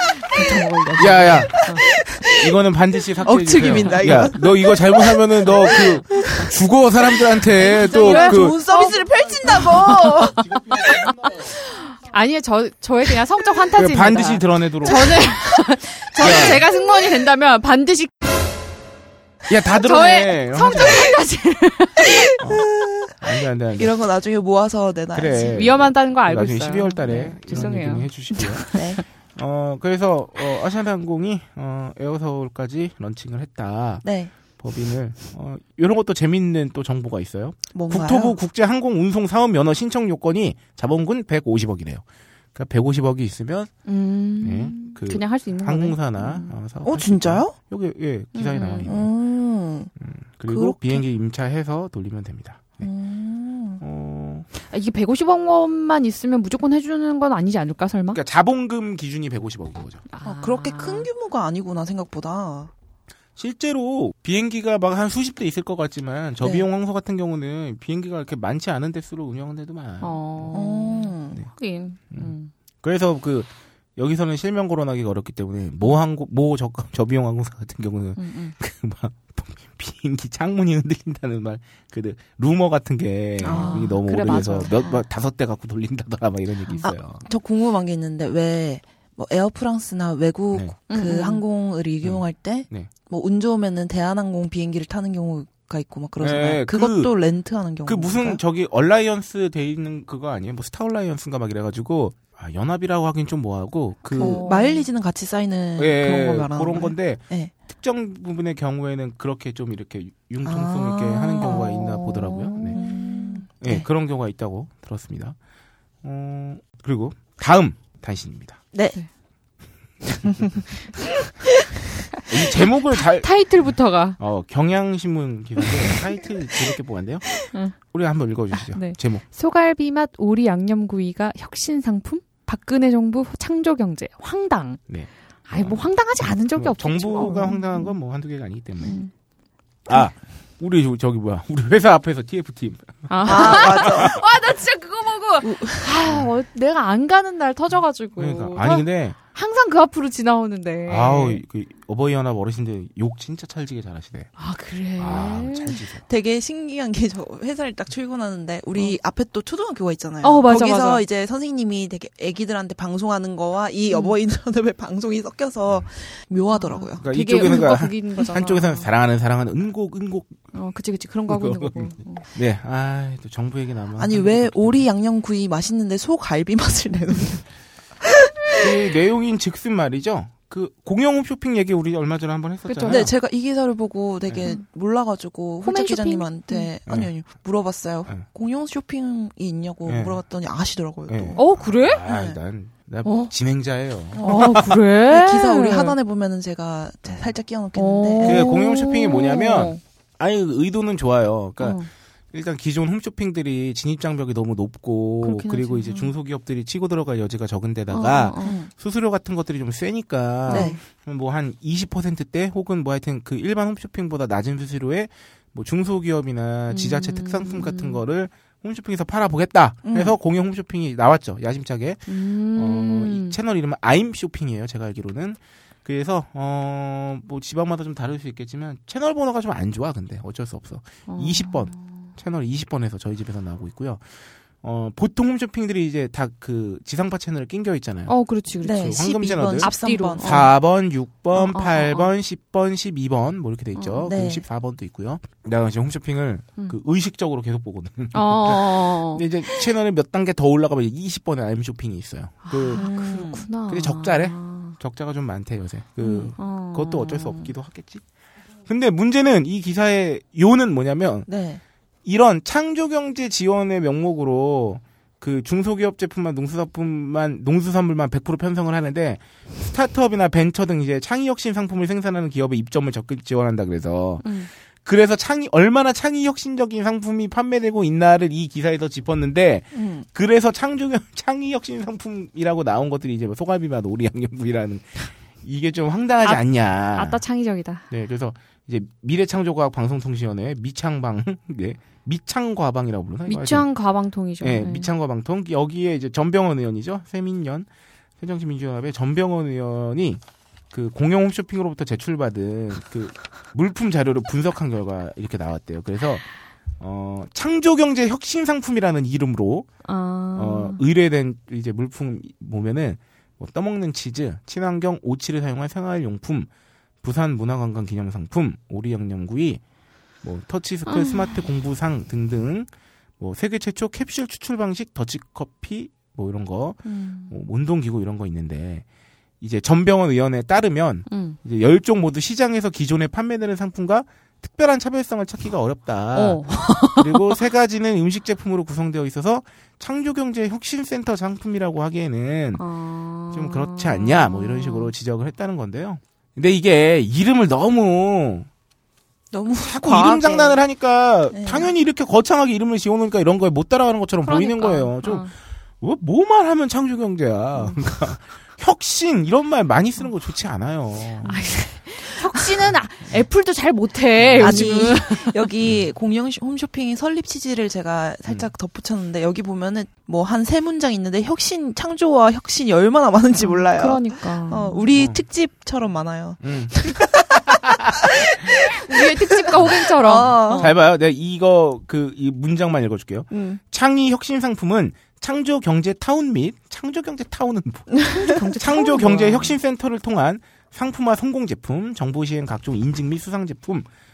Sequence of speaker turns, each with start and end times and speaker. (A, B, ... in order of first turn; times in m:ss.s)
0:00.2-0:02.1 A
0:01.0-0:01.6 B
0:01.0-0:02.5 C
0:02.4-0:08.6 B
0:03.2-0:06.5 C
0:03.7-0:04.3 A
0:07.6-0:11.2 C
0:07.6-0:18.2 A
0:13.8-0:15.1 B
0:14.8-0:16.6 C
0:16.2-0:16.7 B
0:19.5-0:21.1 B
0:19.8-0:22.3 A
0:22.4-0:24.0 B
0:22.4-0:23.1 C
0:23.8-0:25.8 C
0:25.1-0:28.6 B
0:25.4-0:29.1 A
0:28.7-0:29.0 C
0:29.3-0:43.7 B
0:34.0-0:34.3 C
0:37.7-0:38.4 C
0:43.9-0:46.5 A
0:44.4-0:49.1 B
0:46.8-0:47.6 C
0:48.4-0:48.9 A
0:48.9-0:49.9 C
0:50.0-0:52.9 B
0:50.5-0:51.0 C
0:52.8-0:53.8 C
0:53.8-0:54.5 B
0:54.7-0:58.2 A
0:58.1-1:00.0 B
1:00.1-1:01.1 A
1:00.2-1:02.7 C
1:03.4-1:10.6 B
1:06.4-1:06.7 C
1:10.0-1:12.5 A
1:10.5-1:11.4 C
1:12.1-1:27.2 B
1:18.2-1:18.6 A
1:23.4-1:24.6 C
1:23.4-1:25.0 A
1:26.8-1:38.4 C
1:30.9-1:31.4 A
1:32.0-1:32.9 B
1:36.2-1:37.1 B
1:37.8-1:44.4 B
1:44.1-1:47.5 C
1:44.1-1:44.9 A
1:45.8-1:52.8 B
1:50.4-1:51.7 C
1:51.4-1:53.4 A
1:52.7-1:53.9 C
1:53.6-1:55.4 B
1:56.0-1:58.6 B
1:58.7-1:59.0 C
2:00.3-2:00.6 C
2:02.3-2:03.3 B
2:03.2-2:04.2 A
2:04.2-2:09.2 B
2:07.5-2:07.8 A
2:08.5-2:14.9 A
2:14.9-2:19.0 B
2:15.5-2:17.9 A
2:18.8-2:19.1 A
2:19.9-2:24.1 B
2:23.1-2:31.4 A
2:23.2-2:24.2 C
2:25.4-2:26.0 C
2:28.2-2:29.2 B
2:30.9-2:34.3 B
2:34.4-2:35.8 A
2:35.0-2:36.0 B
2:36.0-2:47.5 C
2:40.2-2:41.0 A
2:43.9-2:44.2 A
2:46.5-2:48.9 A
2:47.0-2:50.4 B
2:50.5-2:52.2 A
2:51.3-2:54.8 B
2:54.0-2:57.5 C
2:58.0-2:58.7 C
2:58.6-3:03.1 B
3:02.7-3:03.1 A
3:02.9-3:12.4 C
3:05.6-3:06.7 A
3:06.9-3:07.1 B
3:09.9-3:10.2 B
3:11.1-3:14.7 B
3:11.4-3:12.0 A
3:13.0-3:13.3 A
3:14.1-3:14.5 C
3:14.2-3:16.0 A
3:15.1-3:18.5 C
3:17.8-3:19.8 A
3:18.2-3:58.1 B
3:21.6-3:21.9 A
3:25.2-3:26.1 A
3:27.9-3:28.6 A
3:28.4-3:28.7 C
3:30.5-3:30.8 A
3:30.5-3:30.8 C
3:36.7-3:38.0 A
3:39.8-3:40.2 C
3:42.1-3:43.4 A
3:51.1-3:52.1 A
3:58.1-4:00.5 A
3:58.6-4:00.4 C
3:58.7-4:12.9 B
4:01.4-4:02.1 A
4:03.8-4:04.1 A
4:04.1-4:04.5 C
4:08.1-4:09.6 A
4:12.5-4:14.8 A
4:12.8-4:13.4 C
4:13.7-4:18.0 B
4:16.0-4:17.5 A
4:18.7-4:21.3 B
4:21.3-4:21.6 C
4:22.0-4:47.2 B
4:34.2-4:34.5 A
4:39.7-4:40.1 C
4:46.2-4:47.9 A
4:47.9-4:53.7 B
4:53.3-4:54.9 A
4:54.4-4:57.7 B
4:58.2-5:09.7 B
5:09.8-5:10.8 A
5:10.4-5:16.5 B
5:17.0-5:19.6 B
5:20.2-5:22.7 B
5:20.9-5:21.4 A
5:23.2-5:28.9 B
5:26.8-5:27.3 A
5:29.4-5:42.6 B
5:31.1-5:31.4 A
5:36.1-5:37.4 A
5:42.6-5:44.9 A
5:43.3-5:48.5 B
5:49.3-5:50.6 C
5:49.6-6:01.4 B
5:51.3-5:51.7 C
5:54.2-5:55.3 A
5:57.6-5:57.8 A
6:01.2-6:05.4 A
6:04.2-6:04.8 B
6:04.4-6:20.7 C
6:13.4-6:14.8 A
6:14.9-6:15.2 B
6:16.4-6:17.1 B
6:17.6-6:18.0 B
6:18.8-6:20.8 A
6:20.2-6:33.9 B
6:23.3-6:23.6 C
6:28.1-6:29.6 A